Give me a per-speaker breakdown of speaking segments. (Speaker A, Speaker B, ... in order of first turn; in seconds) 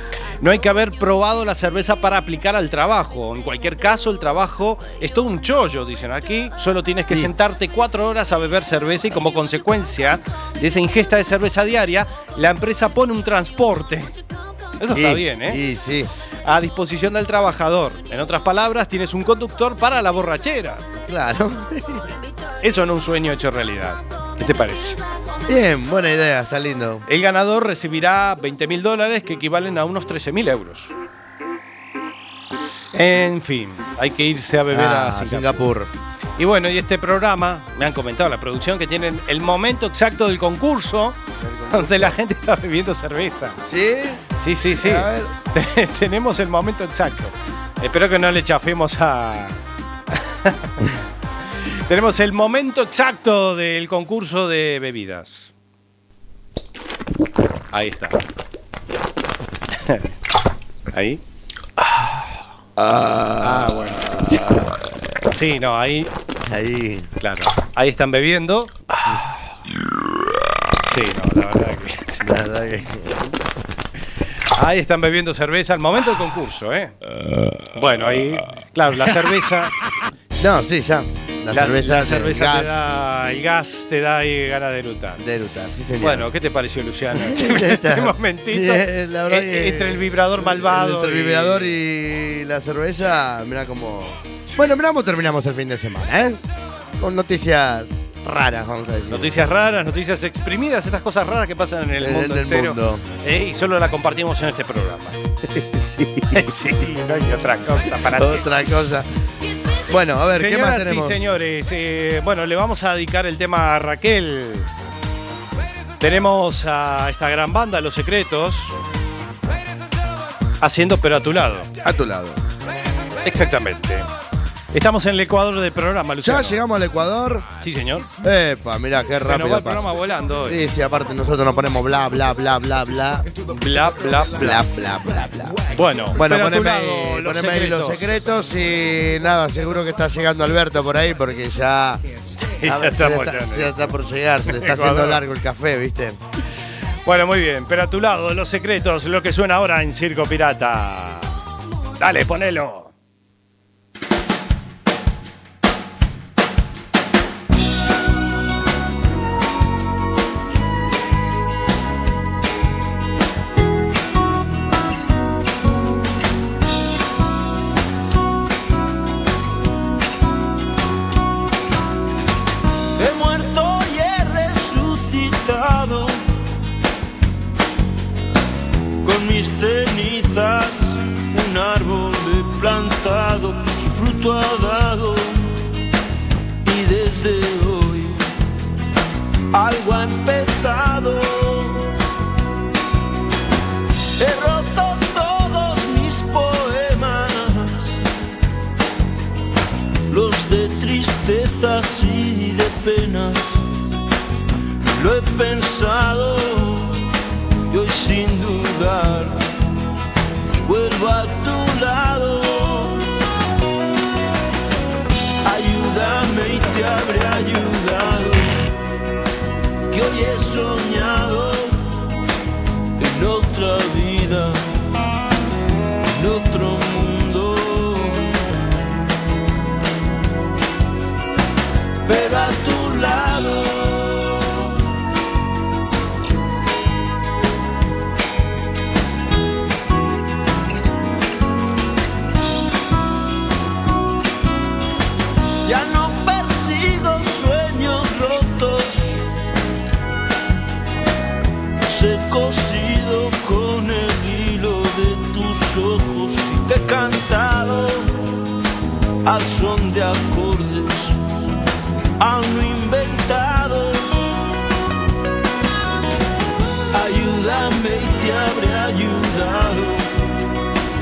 Speaker A: 0.4-14.1, 14.8-15.6, 16.4-20.8, 22.6-25.0, 27.1-30.9, 32.9-35.6, 36.4-41.2, 41.7-43.6, 44.4-49.5, 50.1-50.9, 51.6-55.5, 57.7-58.2, 59.7-60.1, 60.9-61.2, 63.4-64.5, 65.3-66.1, 67.2-68.7, 70.9-72.2, 74.5-76.9, 77.7-79.7, 81.5-85.2, 86.0-91.7, 99.1-105.2, 106.3-108.6, 110.3-114.7, 116.0-118.8, 120.6-121.7, 123.2-124.0, 124.7-126.6, 127.6-128.1, 129.2-130.6, 133.5-134.6, 135.7-138.0, 142.4-143.9, 144.5-145.2, 147.0-151.4, 152.0-152.9
Speaker B: 14.9-16.1, 21.1-22.1, 25.5-27.0, 34.7-35.9, 41.4-42.2, 43.6-44.2, 44.8-45.3, 62.8-64.9, 66.4-67.1, 72.2-73.3, 80.4-82.9, 85.2-86.3, 87.1-96.4, 97.0-99.5, 102.0-103.0, 105.4-106.7, 108.0-109.1, 109.9-111.3, 121.8-122.4, 126.2-127.5, 128.2-133.3, 134.3-142.0, 142.6-146.2
Speaker C: 173.0-176.2, 179.0-185.6, 186.6-188.3, 189.5-191.9, 194.2-198.1, 200.1-203.6, 204.9-207.1, 207.7-209.5, 210.7-213.0, 215.4-218.6, 219.9-222.1, 223.0-224.7, 226.1-228.5, 232.1-234.7, 245.6-249.2, 251.8-258.2, 259.2-261.2, 262.2-264.4, 266.9-270.1